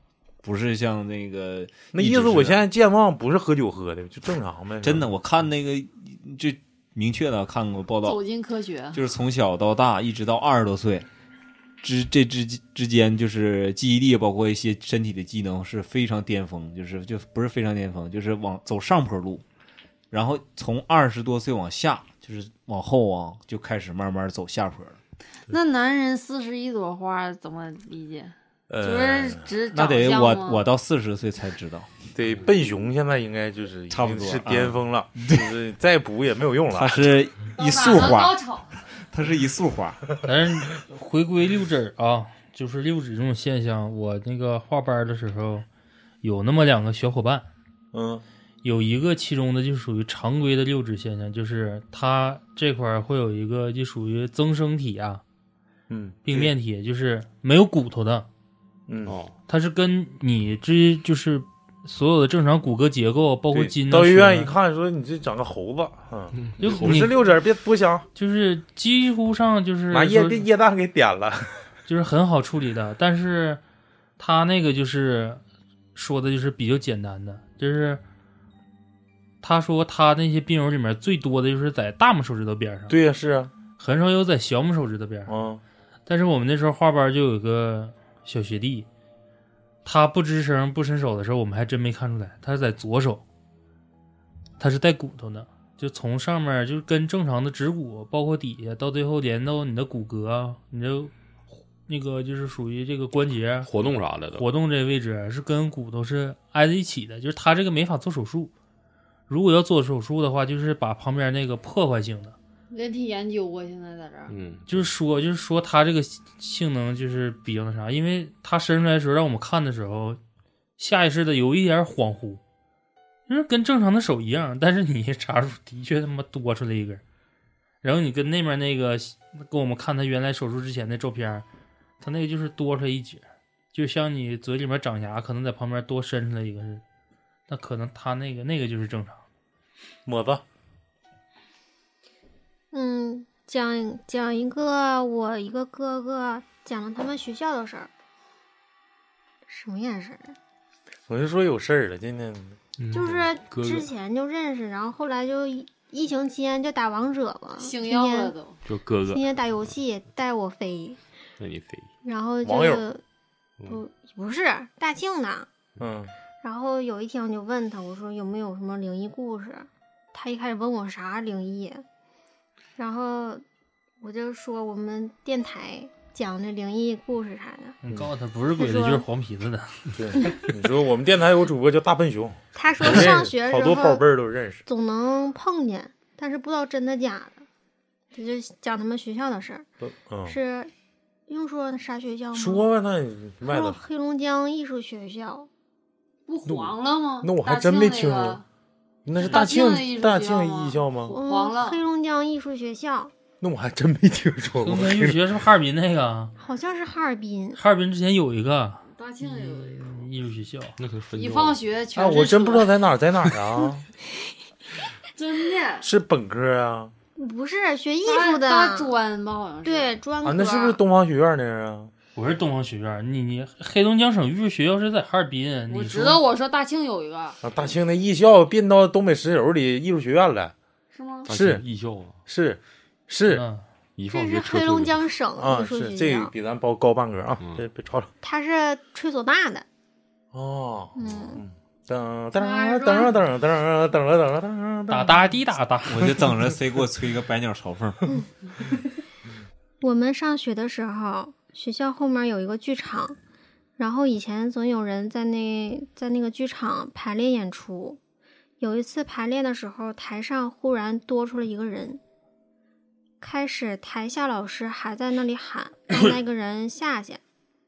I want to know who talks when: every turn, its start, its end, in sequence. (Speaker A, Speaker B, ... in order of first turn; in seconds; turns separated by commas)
Speaker A: 0.4-2.6, Speaker B: 1.9-5.1, Speaker A: 4.8-8.2, Speaker C: 8.0-9.0, Speaker A: 8.9-11.1, Speaker A: 11.8-19.4, Speaker A: 20.1-25.0, Speaker C: 25.5-30.7, Speaker B: 28.7-29.5, Speaker A: 29.7-32.0, Speaker B: 32.1-37.1, Speaker A: 33.9-35.5, Speaker A: 36.7-40.0, Speaker C: 37.5-38.8, Speaker D: 40.2-45.7, Speaker D: 46.2-47.5, Speaker B: 47.9-48.2, Speaker D: 48.6-55.2, Speaker B: 55.9-56.5, Speaker D: 56.2-58.3, Speaker B: 58.9-59.2, Speaker E: 59.1-59.4, Speaker D: 59.5-64.5, Speaker B: 63.5-68.1, Speaker E: 66.4-67.0, Speaker D: 66.6-67.2, Speaker D: 68.2-70.5, Speaker B: 69.9-71.7, Speaker D: 71.9-73.6, Speaker D: 74.2-75.4, Speaker D: 76.0-78.0, Speaker D: 79.4-83.0, Speaker B: 82.9-83.5, Speaker D: 83.8-85.3, Speaker B: 85.3-85.6, Speaker D: 86.1-88.9, Speaker D: 89.8-93.2, Speaker D: 94.6-101.1, Speaker D: 101.9-103.7, Speaker E: 103.7-104.4, Speaker D: 104.3-108.5, Speaker D: 109.3-112.4, Speaker C: 112.7-114.4, Speaker E: 114.3-114.9, Speaker D: 114.7-120.2, Speaker D: 120.8-122.4, Speaker D: 123.3-127.0, Speaker D: 127.8-131.4, Speaker D: 132.0-136.8, Speaker D: 137.5-139.2, Speaker B: 140.1-140.4, Speaker F: 142.7-147.9, Speaker F: 149.5-150.4, Speaker B: 151.1-152.6, Speaker E: 152.8-153.9, Speaker F: 152.9-158.3, Speaker C: 157.6-158.6, Speaker E: 158.7-159.3, Speaker F: 159.1-161.0, Speaker E: 161.4-161.9, Speaker F: 162.0-163.0, Speaker B: 162.4-162.9, Speaker F: 163.7-165.5, Speaker B: 165.8-166.1, Speaker F: 166.4-171.8, Speaker F: 172.8-173.4, Speaker F: 174.0-177.8, Speaker D: 177.8-179.9, Speaker F: 178.6-179.1, Speaker B: 179.9-184.7, Speaker F: 182.6-184.0, Speaker F: 184.7-187.4, Speaker F: 188.1-189.7, Speaker B: 189.8-190.4, Speaker F: 190.3-190.7, Speaker F: 191.3-192.7, Speaker B: 192.3-193.8, Speaker F: 193.4-195.5, Speaker C: 196.3-198.4, Speaker B: 196.5-198.4, Speaker B: 199.1-201.2, Speaker C: 199.2-201.8, Speaker F: 201.1-203.1, Speaker B: 203.4-205.2, Speaker D: 204.6-206.3, Speaker F: 206.4-207.6, Speaker D: 207.6-210.8, Speaker C: 208.8-210.1, Speaker E: 210.8-211.6, Speaker C: 211.1-212.7, Speaker B: 212.0-213.8, Speaker C: 215.2-215.9, Speaker B: 215.8-216.9, Speaker F: 217.2-218.9, Speaker C: 218.0-220.0, Speaker F: 219.7-220.8, Speaker B: 220.2-221.9, Speaker D: 222.2-226.2, Speaker C: 225.7-227.4, Speaker B: 227.4-230.5, Speaker C: 230.9-231.3, Speaker E: 231.3-232.2, Speaker B: 231.3-231.6, Speaker B: 232.3-233.4, Speaker D: 233.3-233.6, Speaker E: 234.0-235.1, Speaker F: 234.1-236.3, Speaker B: 235.4-238.1, Speaker F: 238.2-239.7, Speaker B: 240.3-245.3, Speaker F: 241.0-241.4, Speaker C: 242.4-243.1, Speaker D: 244.9-246.3, Speaker A: 245.9-248.1, Speaker F: 249.8-253.2, Speaker F: 253.8-258.0, Speaker F: 258.6-262.0, Speaker F: 263.2-267.2